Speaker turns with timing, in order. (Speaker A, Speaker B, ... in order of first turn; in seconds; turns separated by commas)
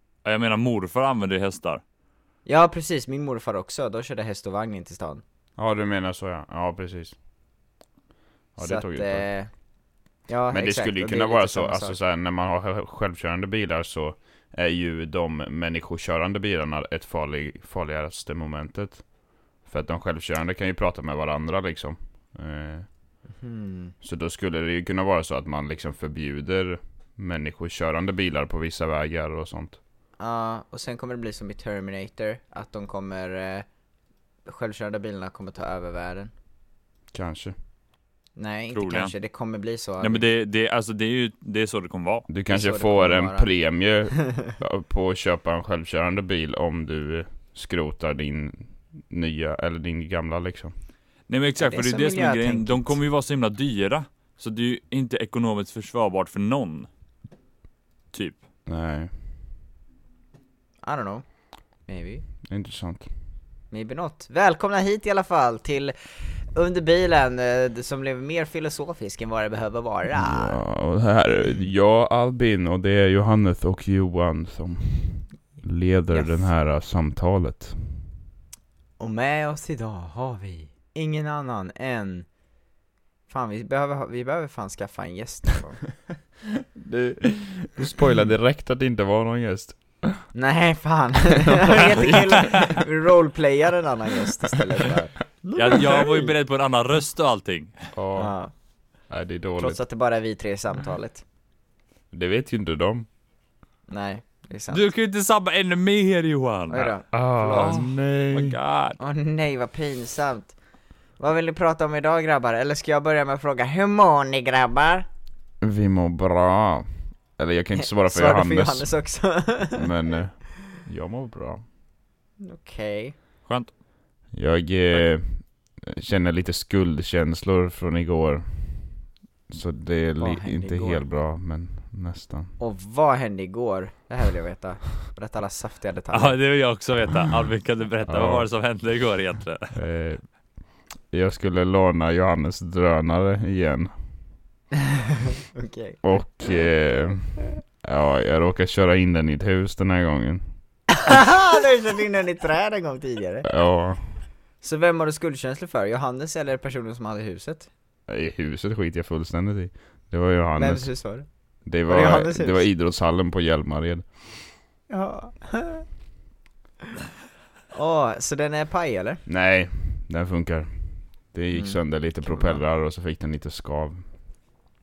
Speaker A: 0.2-1.8, Speaker B: 2.5-5.2, Speaker C: 5.6-7.2, Speaker C: 8.6-9.2, Speaker B: 8.6-9.5, Speaker B: 10.3-12.0, Speaker C: 10.5-19.1, Speaker C: 19.6-22.9, Speaker B: 23.4-23.9, Speaker C: 24.0-29.8, Speaker B: 30.2-33.6, Speaker B: 34.5-36.3, Speaker C: 37.1-37.5, Speaker B: 38.4-40.2, Speaker A: 38.7-39.1, Speaker A: 40.0-42.3, Speaker C: 42.3-50.7, Speaker B: 42.5-43.5, Speaker B: 44.2-44.5, Speaker A: 51.3-56.9, Speaker B: 51.6-53.0, Speaker A: 58.1-58.4, Speaker C: 58.6-59.1, Speaker B: 60.8-61.2, Speaker B: 61.9-62.2, Speaker C: 62.5-63.1, Speaker B: 63.7-70.6, Speaker C: 70.1-78.0, Speaker B: 76.1-76.5, Speaker B: 79.0-82.3, Speaker B: 83.3-85.9, Speaker C: 86.8-90.2, Speaker B: 90.3-96.3, Speaker C: 91.5-92.8, Speaker A: 95.5-97.9, Speaker C: 95.7-96.0, Speaker C: 97.9-98.3, Speaker B: 98.2-98.5, Speaker C: 99.1-99.8, Speaker B: 99.6-101.2, Speaker C: 102.1-103.1, Speaker B: 103.9-104.9, Speaker A: 104.7-109.0, Speaker B: 106.7-107.8, Speaker C: 107.1-108.6, Speaker B: 109.0-110.5, Speaker B: 111.2-115.0, Speaker C: 115.6-116.9, Speaker C: 117.4-118.9, Speaker B: 117.8-119.9, Speaker C: 119.7-121.6, Speaker B: 122.4-123.1, Speaker C: 124.3-132.5, Speaker B: 130.2-131.1, Speaker B: 132.6-136.4, Speaker A: 136.1-139.8, Speaker C: 138.1-138.4, Speaker C: 139.7-140.2, Speaker C: 141.1-143.9, Speaker B: 145.1-146.0, Speaker C: 146.0-150.4, Speaker B: 150.9-153.5, Speaker C: 153.4-154.0, Speaker B: 154.6-157.7, Speaker C: 158.1-160.9, Speaker B: 160.6-161.3, Speaker C: 161.7-164.1, Speaker B: 161.8-162.7, Speaker B: 164.9-165.8, Speaker B: 167.7-169.2, Speaker C: 169.3-174.0, Speaker B: 171.5-172.6